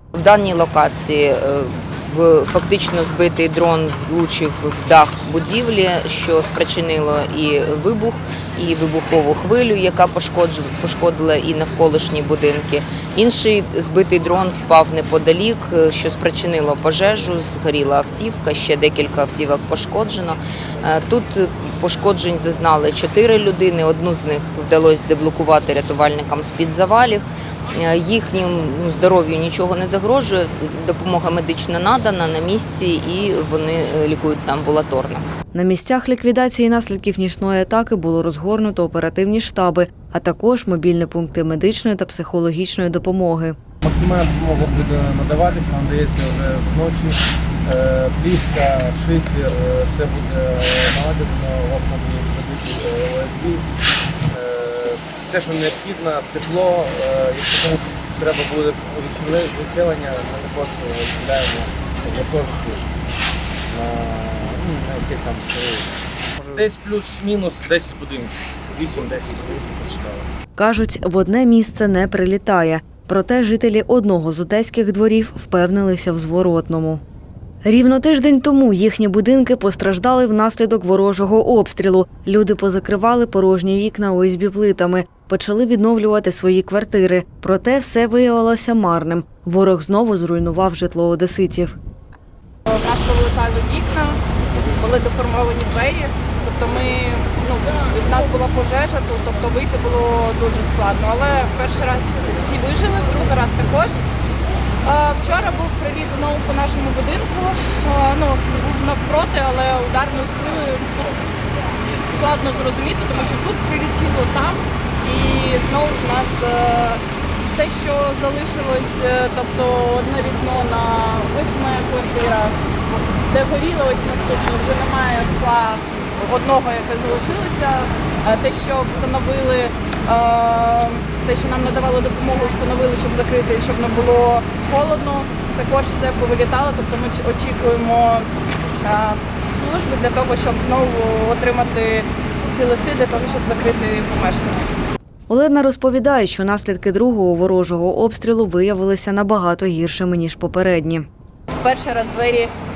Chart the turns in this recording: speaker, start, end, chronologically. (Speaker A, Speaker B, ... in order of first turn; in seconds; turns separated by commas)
Speaker A: 0.1-35.2, Speaker B: 35.5-43.5, Speaker C: 43.8-53.7, Speaker C: 54.3-62.9, Speaker C: 63.7-66.0, Speaker C: 66.5-70.3, Speaker B: 70.5-77.0, Speaker B: 77.6-91.8, Speaker D: 92.7-94.2, Speaker D: 94.7-104.0, Speaker D: 104.8-111.2, Speaker D: 112.1-122.6, Speaker D: 123.3-138.3, Speaker D: 138.8-144.7, Speaker B: 145.3-151.1, Speaker D: 151.6-152.5